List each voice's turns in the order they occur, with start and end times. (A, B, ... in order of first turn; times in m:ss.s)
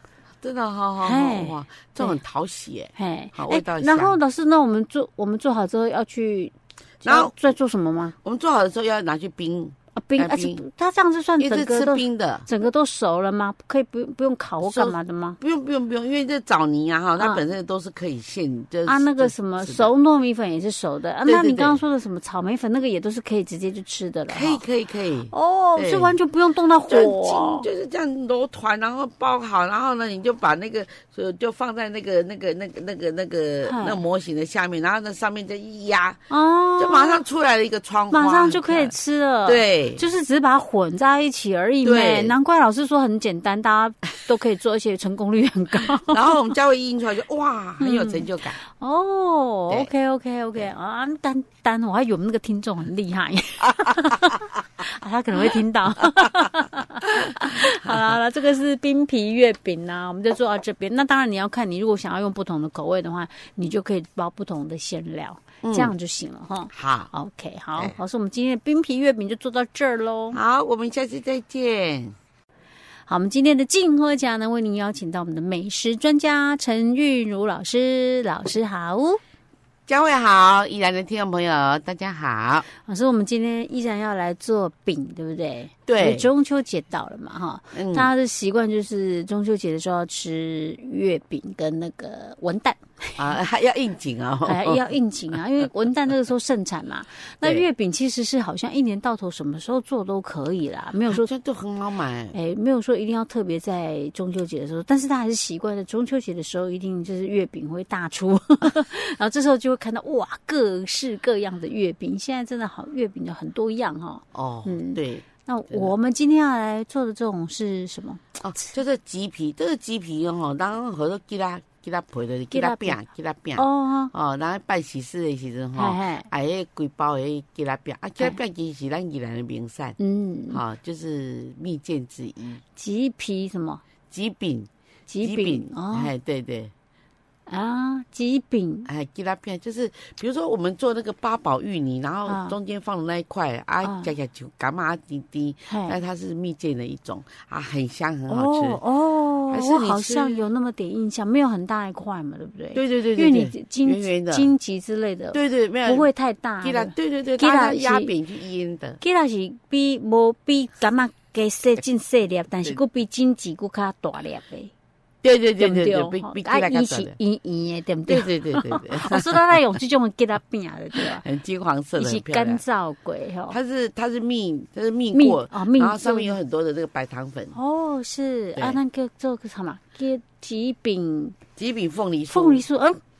0:00.4-0:04.2 A
0:01.0-0:02.2 B
0:03.0-0:08.2 B
0:07.0-0:07.3 A
0:08.2-0:10.6 A
0:10.0-0:15.4 B
0:11.4-0:12.5 A
0:14.6-0:19.9 A
0:17.2-0:17.4 B
0:18.8-0:24.6 B
0:21.2-0:21.8 A
0:24.3-0:26.2 A
0:25.3-0:27.7 B
0:26.9-0:38.9 A
0:33.6-0:34.0 B
0:36.3-0:37.2 B
0:38.1-0:46.4 B
0:39.4-0:40.0 A
0:41.8-0:42.4 A
0:46.1-0:48.6 A
0:47.8-1:10.4 B
0:55.5-0:56.4 A
0:57.0-0:58.2 A
1:05.6-1:05.9 A
1:06.7-1:07.1 A
1:10.3-1:12.2 A
1:13.1-1:19.2 B
1:19.9-1:22.7 A
1:22.8-1:33.2 B
1:25.9-1:26.3 A
1:27.7-1:28.1 A
1:33.2-1:34.8 A
1:34.4-1:41.3 B
1:41.1-1:42.4 A
1:42.3-1:58.7 B
1:54.3-1:55.9 A
1:58.4-2:10.0 A
2:02.5-2:03.0 B
2:03.6-2:04.1 B
2:05.8-2:06.3 B
2:10.0-2:10.6 B
2:10.5-2:12.6 A
2:12.8-2:13.8 B
2:14.1-2:14.7 A
2:15.1-2:16.1 B
2:15.2-2:16.7 A
2:17.5-2:18.9 B
2:18.8-2:28.8 A
2:22.3-2:22.5 B
2:23.8-2:24.1 B
2:25.7-2:26.0 B
2:28.3-2:38.1 B
2:29.5-2:30.4 A
2:32.7-2:34.5 A
2:35.3-2:36.1 A
2:36.6-2:39.0 A
2:39.0-2:44.7 B
2:45.2-2:47.2 A
2:45.6-2:51.2 B
2:48.1-2:49.8 A
2:50.9-2:52.6 A
2:52.0-2:53.6 B
2:53.5-2:57.6 A
2:55.1-2:56.3 B
2:57.5-3:01.4 B
3:01.6-3:02.6 A
3:02.3-3:03.0 B